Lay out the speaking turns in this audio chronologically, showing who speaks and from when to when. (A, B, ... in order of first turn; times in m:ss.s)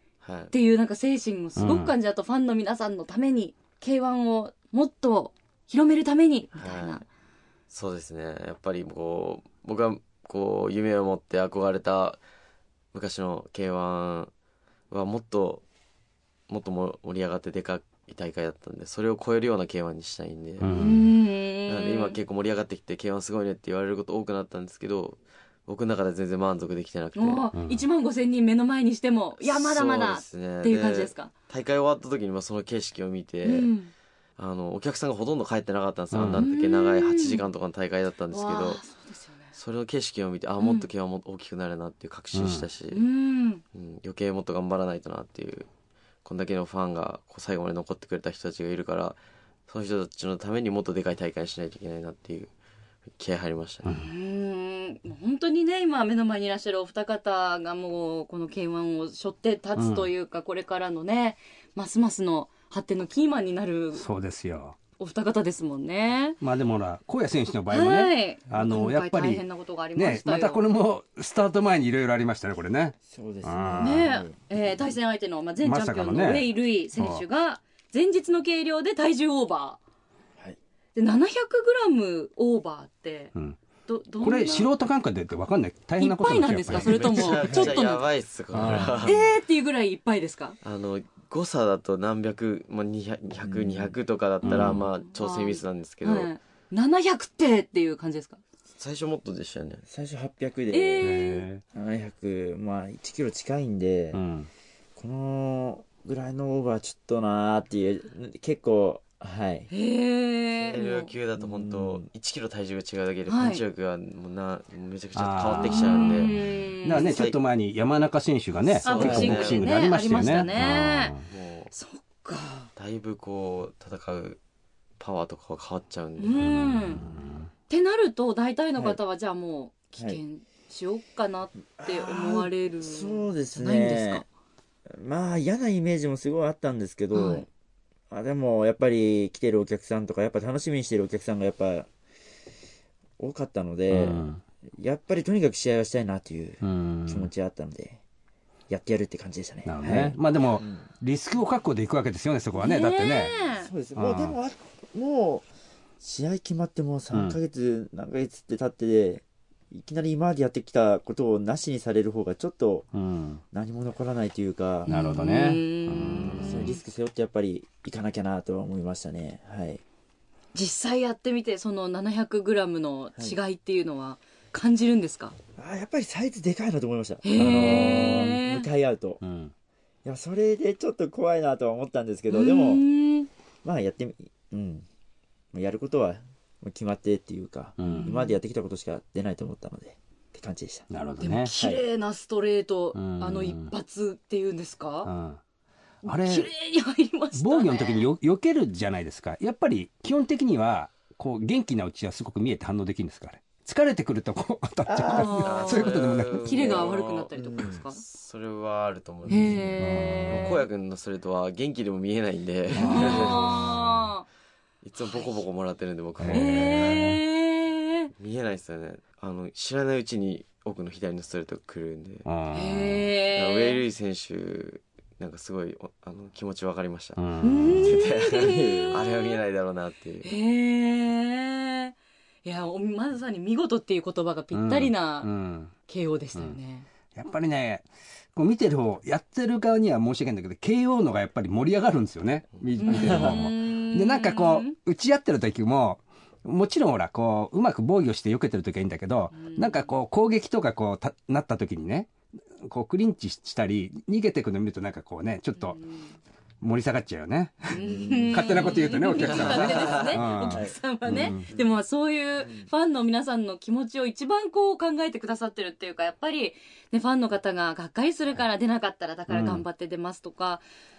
0:00.2-0:00.5 A
0:00.5-0:07.0 B
0:01.6-0:01.9 C
0:06.6-0:07.0 A
0:07.7-0:12.2 A
0:12.9-0:14.3 A
0:14.9-0:15.6 A
0:16.5-0:20.7 A
0:20.6-0:21.1 C
0:20.7-0:22.2 B
0:21.7-0:27.5 A
0:27.2-0:31.3 B
0:27.6-0:27.8 C
0:29.4-0:33.7 A
0:33.4-0:33.9 B
0:34.4-0:38.8 A
0:36.1-0:36.4 C
0:36.4-0:37.4 B
0:38.3-0:39.6 B
0:39.5-0:43.0 A
0:40.6-0:40.9 B
0:42.3-0:42.7 C
0:42.9-0:43.6 B
0:43.7-0:45.7 A
0:46.2-0:52.5 A
0:53.1-0:53.9 A
0:54.0-1:04.0 B
0:59.8-1:00.1 C
1:04.0-1:04.8 C
1:05.0-1:06.4 B
1:06.4-1:09.4 C
1:07.7-1:10.6 B
1:10.0-1:14.0 C
1:13.1-1:14.4 D
1:13.8-1:19.8 B
1:15.6-1:17.2 C
1:21.0-1:23.3 B
1:23.9-1:24.7 B
1:24.2-1:27.5 C
1:26.0-1:28.1 B
1:26.7-1:29.2 A
1:27.4-1:27.8 D
1:28.5-1:29.0 C
1:28.6-1:29.0 D
1:29.0-1:30.6 B
1:30.6-1:36.3 A
1:33.4-1:34.0 D
1:34.4-1:34.9 C
1:34.7-1:38.4 B
1:38.8-1:39.8 A
1:39.9-1:44.2 D
1:40.7-1:41.5 B
1:41.0-1:41.6 C
1:44.1-1:44.5 C
1:45.0-1:49.7 D
1:49.7-1:51.1 B
1:50.6-1:57.4 A
1:51.4-1:52.1 D
1:53.3-1:53.6 B
1:55.2-2:01.2 C
1:55.6-1:57.2 B
1:58.8-1:59.6 A
1:58.8-2:01.2 B
1:58.9-1:59.3 D
2:01.3-2:01.7 A
2:01.7-2:02.7 B
2:02.8-2:04.4 A
2:05.0-2:06.4 A
2:06.2-2:07.0 B
2:06.4-2:07.5 C
2:07.7-2:14.3 B
2:11.8-2:14.2 D
2:14.9-2:17.5 D
2:17.1-2:17.5 B
2:18.1-2:21.9 D
2:23.2-2:24.2 D
2:23.9-2:24.4 C
2:24.8-2:28.0 D
2:26.6-2:27.3 C
2:28.7-2:30.8 D
2:29.6-2:33.3 C
2:32.6-2:33.7 B
2:33.6-2:35.5 D
2:34.0-2:34.4 C
2:36.0-2:42.9 D
2:42.9-2:43.4 C
2:43.5-2:44.9 D
2:44.9-2:46.7 C
2:44.9-2:46.8 B
2:46.3-2:49.8 D
2:50.5-2:55.4 B
2:55.6-2:59.2 D
2:57.2-2:58.7 B
2:59.2-2:59.5 C
3:00.0-3:02.9 D
3:02.3-3:03.3 B
3:03.6-3:04.9 D
3:05.5-3:10.9 D
3:07.8-3:08.1 C
3:07.8-3:08.4 B
3:10.9-3:11.5 C
3:11.2-3:15.1 B
3:11.6-3:11.8 D
3:13.0-3:13.7 C
3:15.0-3:15.4 C
3:16.0-3:18.1 B
3:16.1-3:16.5 C
3:17.4-3:26.6 C
3:24.9-3:25.5 D
3:25.1-3:28.0 B
3:25.4-3:29.7 A
3:26.8-3:27.7 D
3:29.3-3:30.6 B
3:29.3-3:30.6 C
3:30.3-3:33.6 A
3:32.8-3:34.0 C
3:32.8-3:34.2 B
3:34.8-3:37.0 A
3:35.0-3:35.4 B
3:36.2-3:37.2 C
3:36.3-3:38.1 B
3:38.2-3:42.3 A
3:42.2-3:43.1 C
3:42.5-3:43.8 B
3:43.3-3:47.2 A
3:47.2-3:47.8 C
3:47.4-3:49.4 B
3:47.7-3:50.3 A
3:50.2-3:55.3 B
3:54.5-3:55.7 C
3:55.9-3:56.9 B
3:57.2-4:15.8 C
4:02.8-4:04.7 B
4:02.9-4:03.4 D
4:09.3-4:09.9 B
4:15.6-4:16.1 B
4:16.6-4:21.5 C
4:17.7-4:30.6 B
4:17.8-4:18.8 D
4:19.1-4:20.2 A
4:19.5-4:19.9 D
4:20.4-4:20.8 D
4:21.3-4:21.7 D
4:22.4-4:22.7 D
4:29.3-4:29.6 C